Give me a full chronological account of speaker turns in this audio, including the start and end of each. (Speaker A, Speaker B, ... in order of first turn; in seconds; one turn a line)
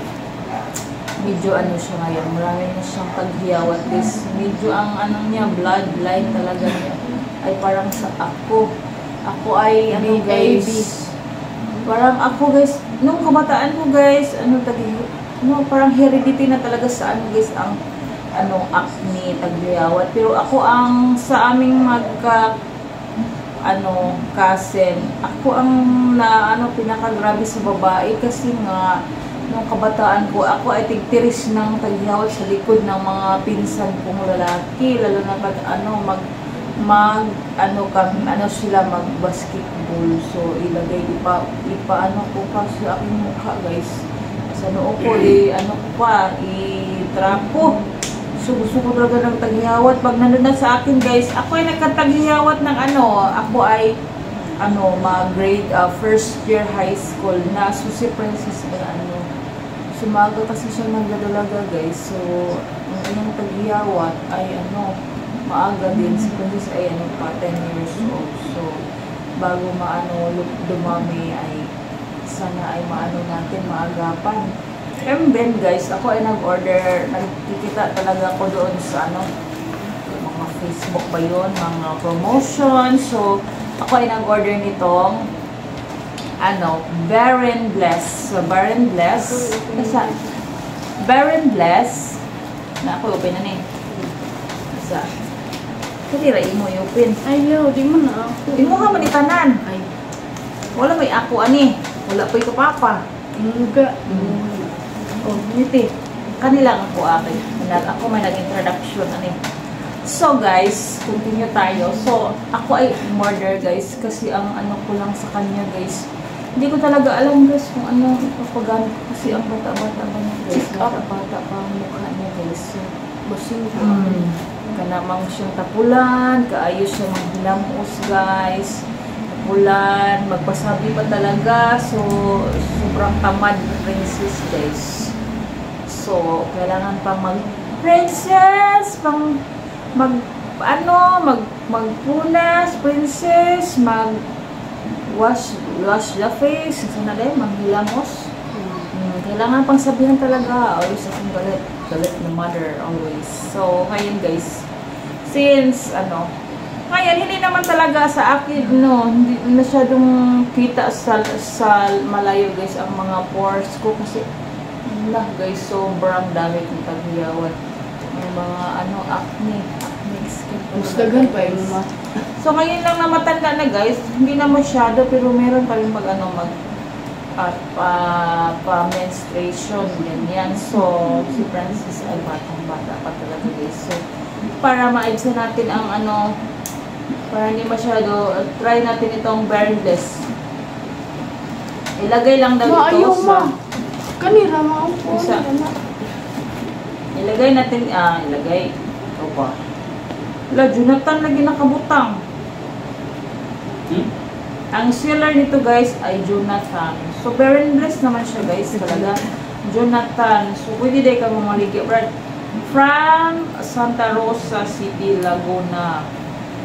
Speaker A: 1.2-8.7
Speaker A: 9.3-11.1
Speaker B: 9.9-10.9
Speaker A: 11.8-17.8
Speaker A: 18.4-22.5
Speaker A: 23.6-29.0
Speaker A: 29.5-36.2
Speaker A: 36.8-47.8
Speaker A: 48.4-53.9
Speaker A: 54.6-59.2
Speaker A: 59.9-64.9
Speaker A: 65.5-68.7
Speaker A: 69.4-71.7
Speaker A: 72.3-74.5
Speaker A: 75.0-79.2
Speaker A: 80.0-85.2
Speaker A: 86.4-90.1
Speaker B: 89.2-90.3
Speaker A: 91.0-92.2
Speaker A: 92.8-93.6
Speaker A: 94.7-95.1
Speaker A: 96.1-97.2
Speaker B: 97.2-99.1
Speaker A: 98.6-99.6
Speaker A: 100.7-103.0
Speaker B: 103.3-104.8
Speaker A: 104.1-104.3
Speaker A: 105.2-122.9
Speaker B: 120.5-121.0
Speaker B: 123.2-124.3
Speaker A: 123.8-135.1
Speaker A: 135.9-139.4
Speaker A: 139.9-144.2
Speaker A: 144.9-148.3
Speaker B: 148.5-148.9
Speaker A: 148.9-154.7
Speaker A: 155.2-156.3
Speaker A: 156.9-164.2
Speaker A: 164.8-167.6
Speaker A: 168.1-171.7
Speaker B: 170.7-171.9
Speaker A: 172.4-176.5
Speaker A: 177.4-184.0
Speaker A: 184.6-186.3
Speaker A: 187.3-190.2
Speaker A: 192.0-193.5
Speaker B: 192.6-193.5
Speaker B: 194.2-195.9
Speaker A: 195.1-195.4
Speaker A: 197.2-199.5
Speaker A: 200.5-202.2
Speaker A: 204.7-216.1